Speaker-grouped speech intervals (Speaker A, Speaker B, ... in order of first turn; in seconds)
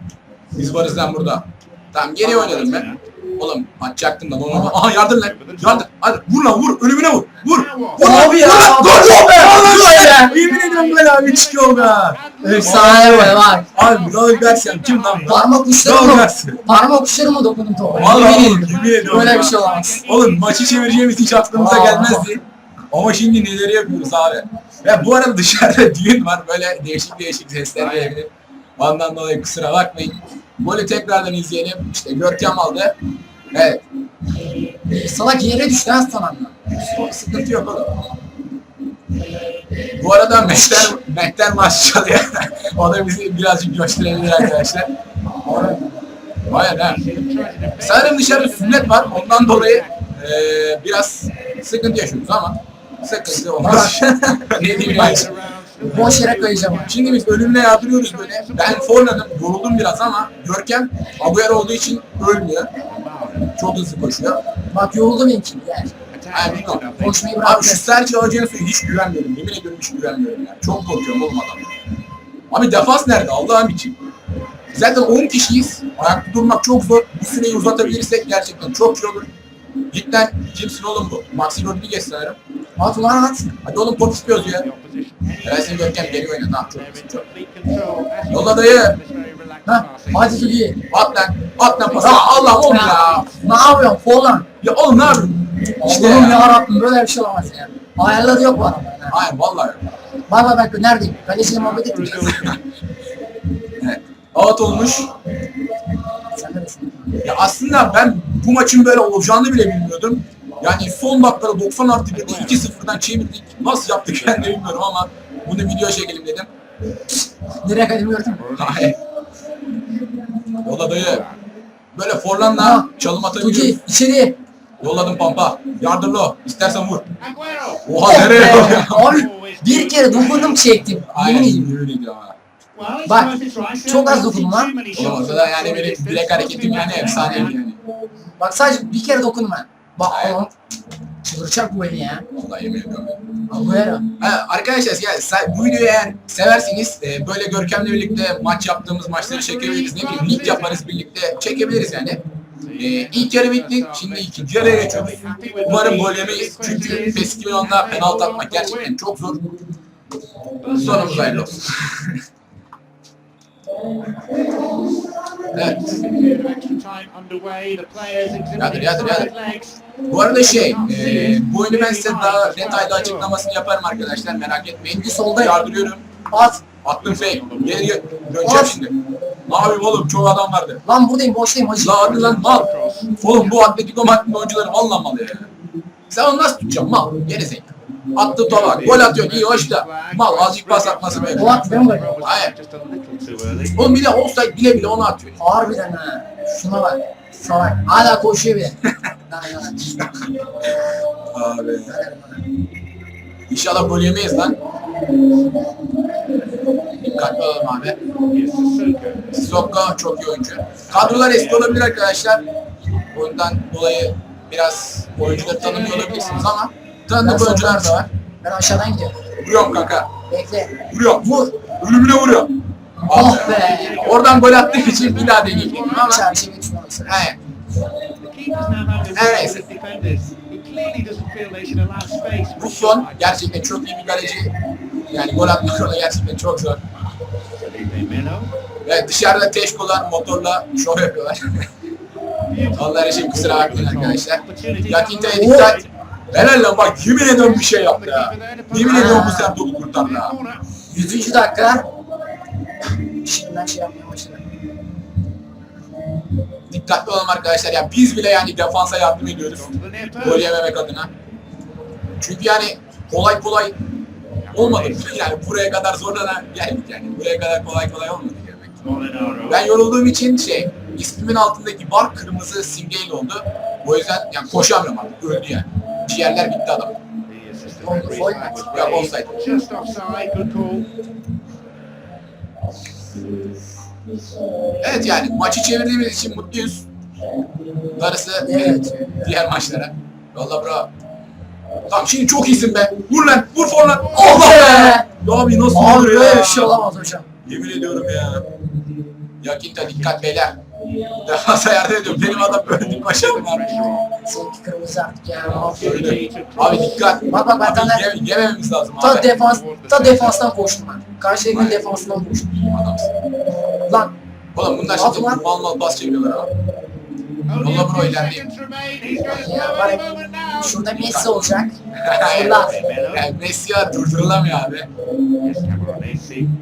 Speaker A: 0.5-16.6, 17.9-33.0, 33.5-33.8, 36.7-38.0, 40.0-44.9, 46.5-47.0, 47.8-55.3, 56.9-62.7, 63.5-64.4, 66.3-66.8, 67.4-71.7, 72.5-74.0, 74.7-79.3, 79.9-82.4, 83.6-84.7, 85.4-87.2, 88.3-89.0, 90.9-93.2, 94.6-96.5, 99.1-99.8, 103.8-105.1, 107.2-116.5, 118.5-119.0, 120.6-121.2, 121.9-123.8, 124.8-127.0, 127.8-129.3, 131.1-132.3, 134.9-137.8, 140.1-140.5, 142.3-143.3, 144.2-152.2, 152.8-159.4, 160.7-162.2, 165.5-165.9, 168.6-169.3, 170.1-176.1, 176.8-180.8, 181.8-185.5, 186.1-191.6, 192.2-192.5, 193.7-195.4, 201.3-201.9, 203.5-204.6, 207.0-208.0, 209.3-212.4, 213.1-218.1, 219.3-220.1, 220.8-222.5, 223.1-226.2, 227.1-227.4, 229.1-229.6, 232.6-236.8, 238.8-241.7, 242.7-250.3, 256.7-261.1, 262.2-263.8, 264.5-268.8, 269.5-276.9, 278.6-279.4, 284.8-286.9, 287.9-290.9, 291.9-296.8, 297.4-298.5, 299.4-300.6, 301.2-303.8, 305.6-309.3, 311.5-312.0, 312.6-313.1, 314.5-316.5, 317.6-318.4, 321.0-324.9
Speaker B: 2.2-3.0, 5.0-5.9, 7.4-8.1, 9.9-15.4, 17.9-21.7, 27.8-28.2, 46.7-50.1, 54.6-59.3, 62.8-63.5, 66.1-67.3, 75.1-75.7, 77.2-78.6, 84.2-90.6, 91.8-93.5, 101.2-102.6, 112.1-112.8, 114.1-114.5, 118.4-119.0, 120.9-121.4, 127.2-130.8, 132.7-137.6, 149.1-150.9, 152.6-159.0, 160.6-161.5, 165.6-173.3, 177.0-178.2, 182.0-183.4, 188.4-193.9, 208.2-209.3, 210.9-212.1, 215.2-216.6, 223.2-226.2, 228.2-233.6, 237.6-238.5, 242.5-245.9, 246.7-250.8, 259.5-260.5, 264.4-265.2, 268.8-269.7, 277.2-280.9, 294.0-294.6, 302.0-304.1, 305.4-307.1, 309.1-310.4, 317.5-321.0, 322.5-323.3, 325.4-326.5
Speaker C: 4.5-4.7, 8.0-10.3, 12.4-13.6, 15.2-20.0, 21.5-22.4, 34.8-36.6, 39.2-39.7, 40.4-40.9, 45.4-46.0, 53.5-54.0, 54.8-55.2, 55.8-56.9, 64.7-65.9, 66.9-67.9, 82.8-83.5, 89.7-90.8, 92.0-94.5, 95.8-99.2, 100.3-102.4, 106.3-107.2, 117.6-118.5, 122.5-124.4, 128.0-131.7, 133.1-133.3, 133.8-134.7, 138.4-140.5, 141.2-142.2, 143.5-144.1, 174.9-175.6, 176.3-176.6, 178.4-178.8, 180.8-182.4, 191.3-192.2, 195.4-200.3, 201.8-202.5, 217.2-219.2, 220.3-221.5, 223.0-224.0, 225.9-227.3, 245.3-245.8, 248.8-249.6, 250.9-251.9, 253.2-254.4, 277.8-278.7, 288.4-289.4, 294.1-295.1, 295.7-297.3, 304.2-306.0, 307.2-308.1, 309.0-312.6, 313.8-314.1, 314.9-315.4, 319.2-320.0, 320.6-322.8